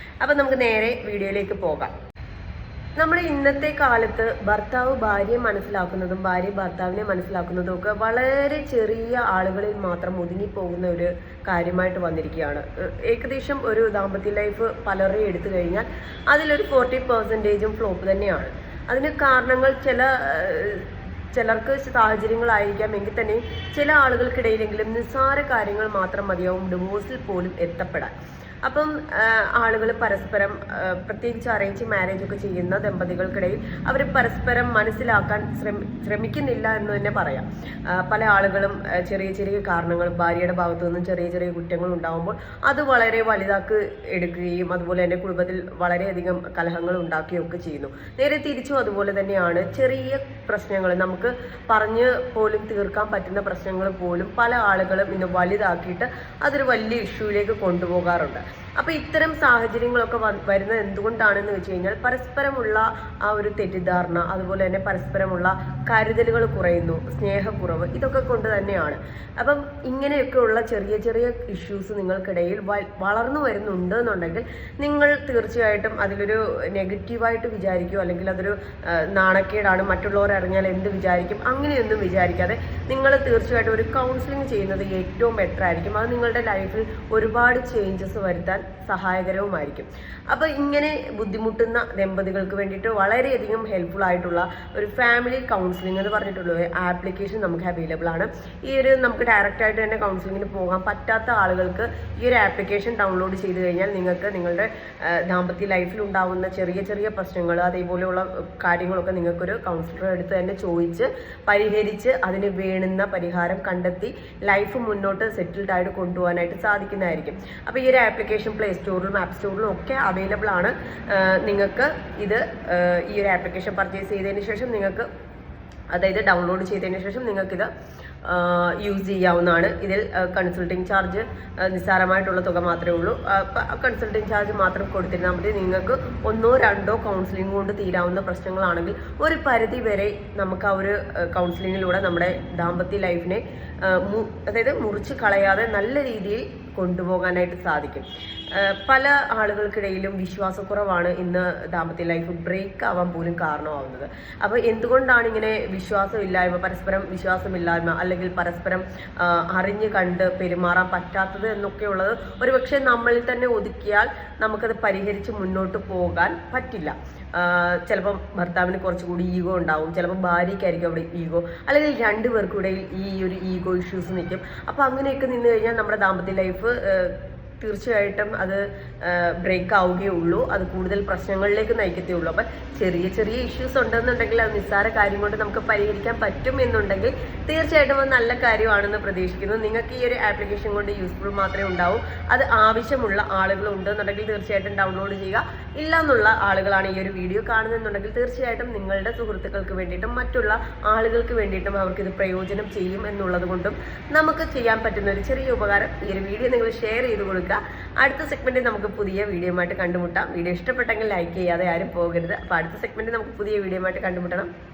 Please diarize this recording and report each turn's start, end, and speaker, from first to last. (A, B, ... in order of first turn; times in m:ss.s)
0:00.2-0:01.9 A
0:03.0-0:28.1 A
0:28.6-2:05.1 A
2:05.9-2:07.7 A
2:08.2-3:34.5 A